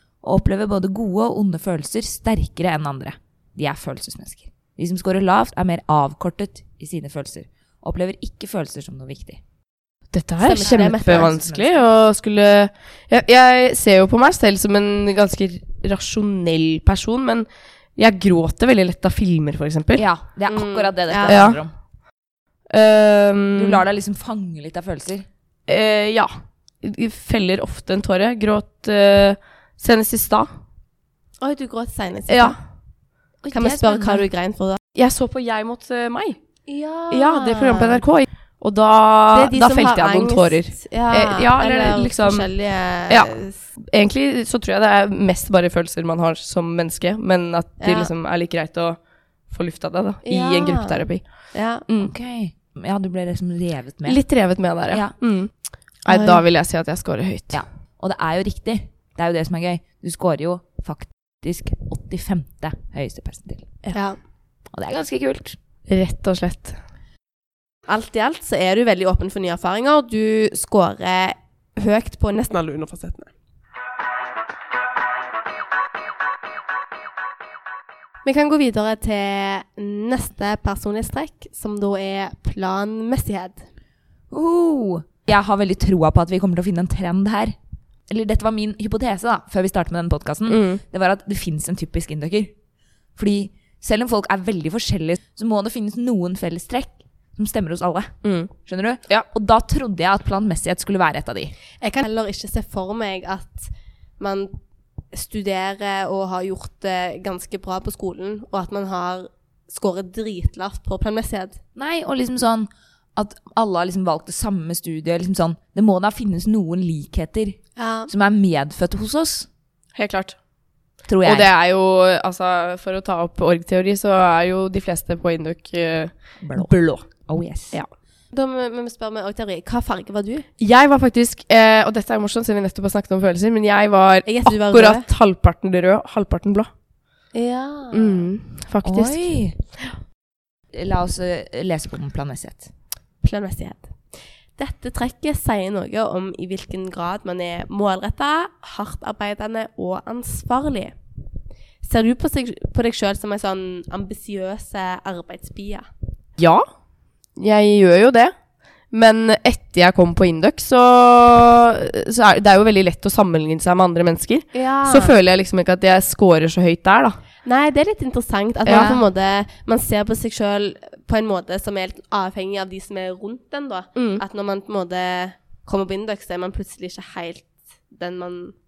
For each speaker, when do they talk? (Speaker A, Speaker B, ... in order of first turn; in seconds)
Speaker A: 0.2-9.4, 10.6-11.9, 20.0-21.7, 23.6-25.3, 33.4-34.2, 52.0-54.2, 54.9-55.1, 57.5-63.7, 64.7-65.6, 84.3-87.5, 88.1-92.5, 93.2-101.5, 111.8-119.5, 121.1-121.5, 126.4-127.8, 138.8-139.6, 140.7-142.7
Speaker B: 10.1-20.1, 21.2-21.6, 22.7-23.8, 25.7-30.5, 32.3-32.6, 35.0-36.4, 37.1-42.5, 43.1-52.1, 54.0-55.5, 56.0-57.6, 65.9-66.8, 90.5-90.8, 98.2-98.5, 120.0-120.4, 121.2-126.7, 130.6-136.7, 137.9-139.3, 156.4-156.7, 157.4-158.3, 158.9-167.2, 168.7-169.0, 174.0-174.2
Speaker C: 10.4-11.3, 20.5-21.5, 31.4-32.6, 33.5-34.8, 36.7-38.0, 39.3-43.6, 47.8-48.1, 50.3-51.9, 56.1-56.4, 63.9-64.2, 67.9-73.3, 78.2-83.7, 101.8-104.5, 105.1-111.6, 117.8-118.1, 128.3-130.5, 134.2-135.1, 137.3-138.3, 143.2-144.0, 144.6-150.9, 151.8-155.9, 164.5-165.2, 167.4-178.6